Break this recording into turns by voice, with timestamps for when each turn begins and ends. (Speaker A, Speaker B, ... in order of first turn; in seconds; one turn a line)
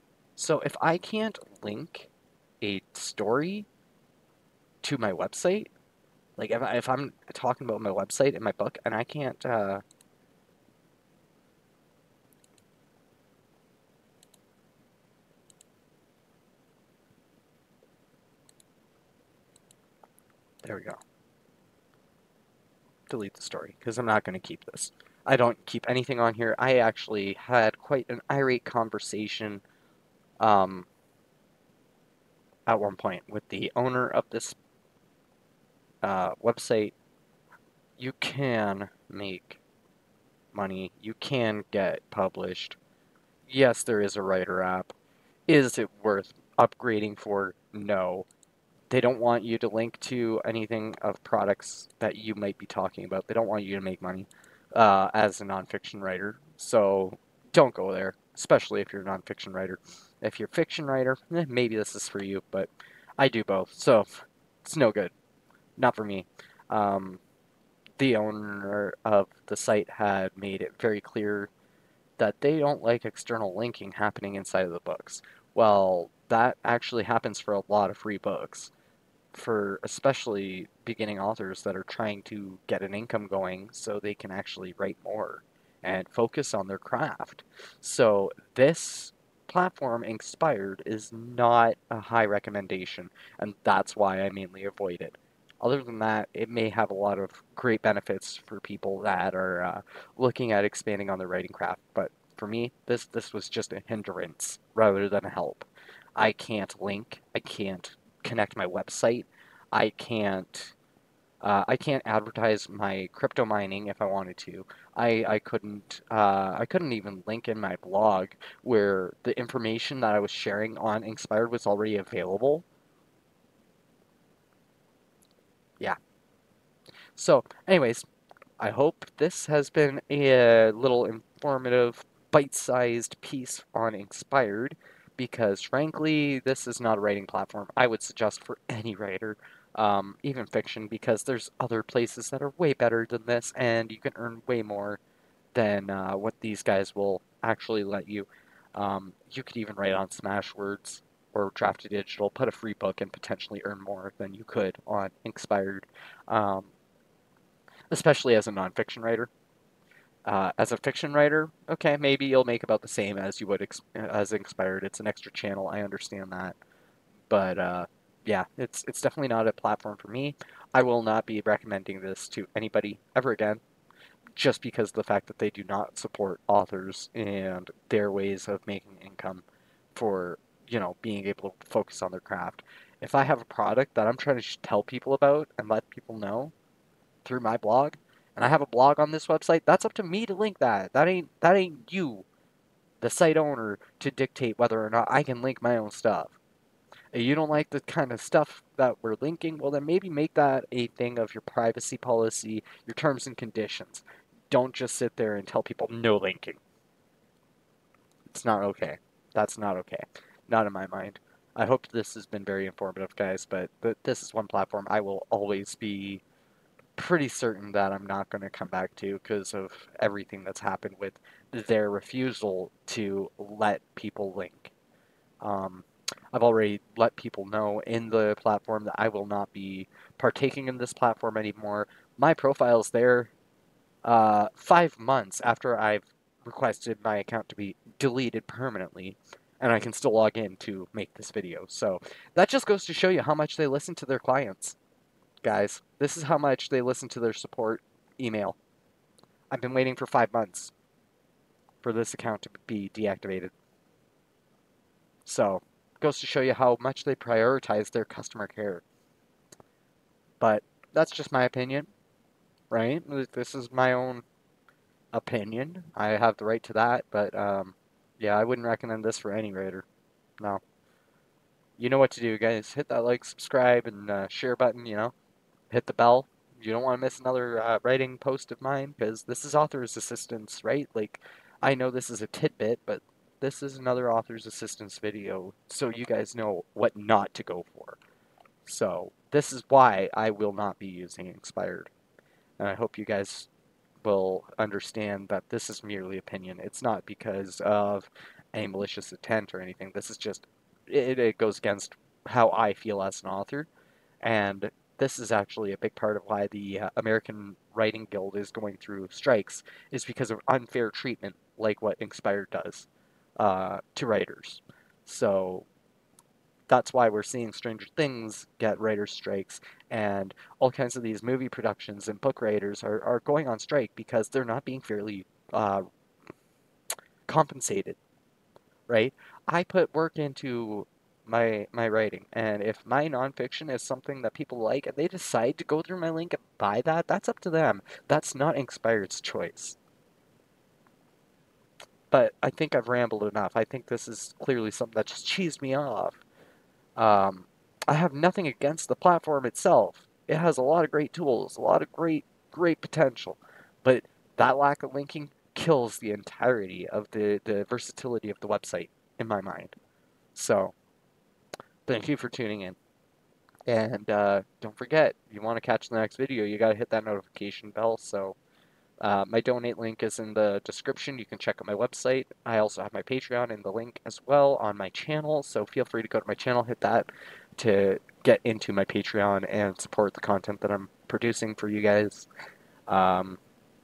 Speaker A: 0.3-3.7
Speaker A: 4.8-5.7
Speaker A: 6.4-9.8
Speaker A: 20.6-21.0
Speaker A: 23.1-29.6
Speaker A: 30.4-30.9
Speaker A: 32.7-34.6
Speaker A: 36.0-36.9
Speaker A: 38.0-39.6
Speaker A: 40.5-42.8
Speaker A: 43.5-44.9
Speaker A: 45.5-48.3
Speaker A: 48.9-65.1
Speaker A: 65.8-67.2
Speaker A: 68.0-71.5
Speaker A: 72.2-78.7
Speaker A: 79.3-110.8
Speaker A: 111.4-122.7
Speaker A: 127.2-128.1
Speaker A: 128.6-145.0
Speaker A: 145.5-156.7
Speaker A: 157.9-159.3
Speaker A: 160.2-166.6
Speaker A: 167.3-173.6
Speaker A: 174.4-179.4
Speaker A: 179.9-186.5
Speaker A: 187.2-192.3
Speaker A: 193.0-196.4
Speaker A: 197.1-206.6
Speaker A: 208.3-216.2
Speaker A: 217.0-224.7
Speaker A: 225.4-233.3
Speaker A: 234.0-244.8
Speaker A: 245.4-248.6
Speaker A: 249.5-250.7
Speaker A: 251.8-253.5
Speaker A: 255.2-258.8
Speaker A: 260.4-261.9
Speaker A: 262.7-264.2
Speaker A: 265.1-269.9
Speaker A: 271.8-275.1
Speaker A: 275.7-288.0
Speaker A: 288.6-291.9
Speaker A: 292.6-293.5
Speaker A: 294.0-303.7
Speaker A: 304.2-312.9
Speaker A: 313.4-315.7
Speaker A: 316.7-325.8
Speaker A: 327.2-328.0
Speaker A: 328.9-339.8
Speaker A: 342.1-346.2
Speaker A: 347.0-359.8
Speaker A: 360.3-360.7
Speaker A: 361.9-362.8
Speaker A: 363.7-368.4
Speaker A: 369.0-382.3
Speaker A: 382.9-383.4